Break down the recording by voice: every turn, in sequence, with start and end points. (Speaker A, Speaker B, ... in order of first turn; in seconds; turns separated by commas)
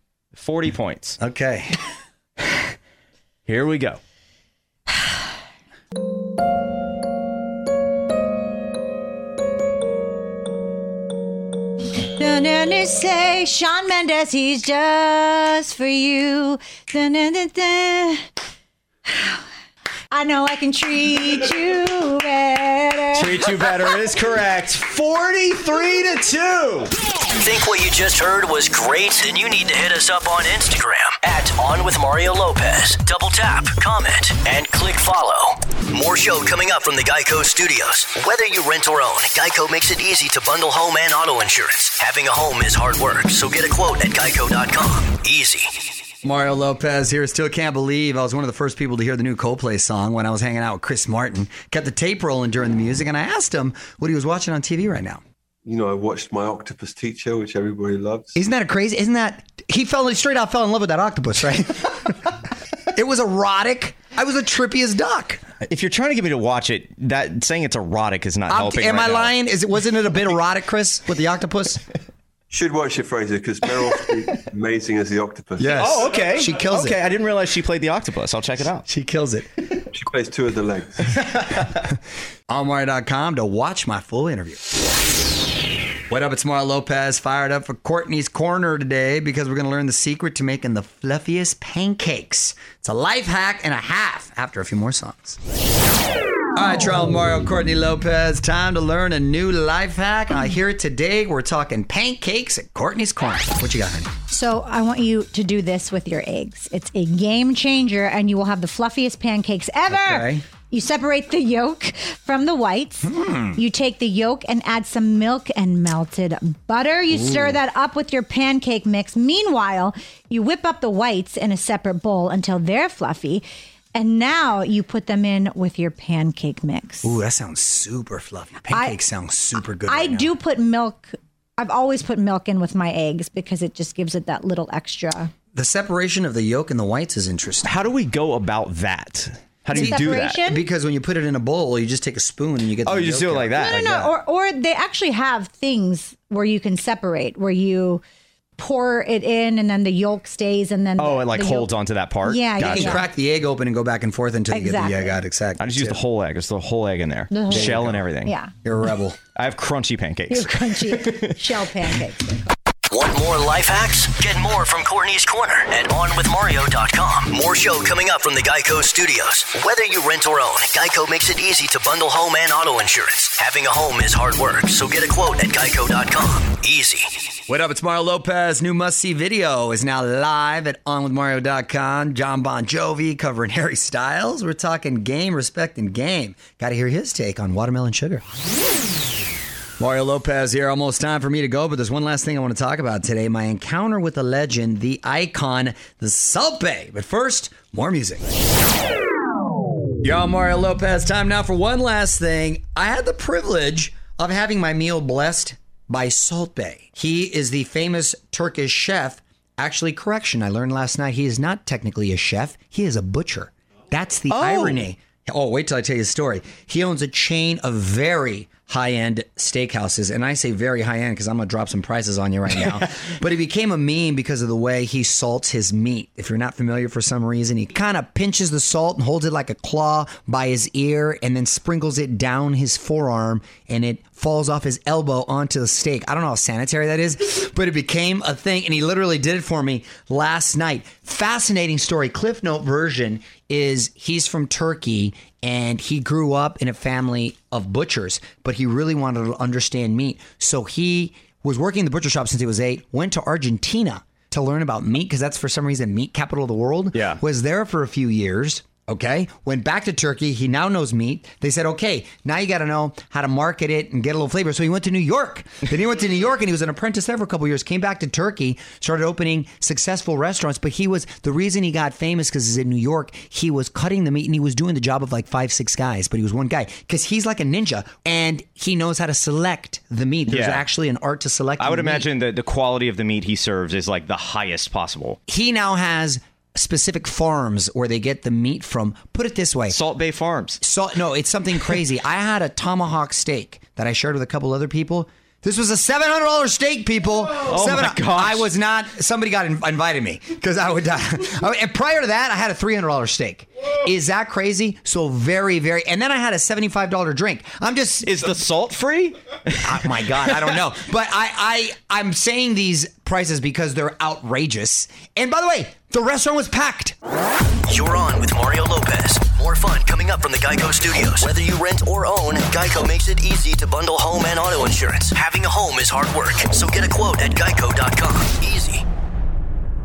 Speaker A: 0.3-1.2, Speaker B: 1.2-1.8, Speaker A: 3.5-4.0, Speaker C: 12.0-18.2, Speaker C: 20.1-23.5, Speaker A: 23.1-26.9, Speaker D: 27.4-45.7, Speaker B: 46.2-55.2, Speaker E: 55.6-58.4, Speaker B: 58.3-62.4, Speaker B: 62.9-65.4, Speaker A: 65.6-69.3, Speaker B: 68.5-71.8, Speaker E: 72.5-76.2, Speaker B: 75.6-77.0, Speaker A: 75.6-78.8, Speaker B: 78.8-79.5, Speaker E: 79.9-81.2, Speaker A: 81.3-81.6, Speaker B: 82.5-84.6, Speaker B: 86.1-95.4, Speaker B: 96.5-104.1, Speaker C: 104.3-127.2, Speaker B: 109.9-110.4, Speaker B: 113.0-113.6, Speaker B: 117.1-117.6, Speaker B: 127.0-130.3, Speaker C: 128.7-129.0, Speaker C: 129.8-135.3, Speaker B: 135.5-137.7, Speaker A: 137.6-140.4, Speaker C: 139.7-140.6, Speaker B: 139.7-143.9, Speaker A: 142.8-144.1, Speaker C: 143.6-148.0, Speaker C: 148.6-153.1, Speaker A: 151.0-153.0, Speaker B: 152.6-156.0, Speaker C: 154.5-155.1, Speaker A: 155.6-158.3, Speaker C: 157.3-158.5, Speaker B: 157.5-158.1, Speaker B: 158.6-159.2, Speaker A: 159.3-161.4, Speaker C: 160.3-162.4, Speaker D: 162.9-177.1, Speaker B: 177.5-188.2, Speaker B: 189.8-198.2, Speaker B: 200.0-282.1, Speaker A: 214.3-214.8, Speaker A: 280.3-280.6, Speaker A: 281.6-285.2, Speaker B: 285.3-289.8, Speaker A: 289.7-290.6, Speaker B: 290.6-308.1, Speaker A: 297.4-298.5, Speaker A: 308.0-310.5, Speaker B: 309.6-316.9, Speaker D: 317.7-328.8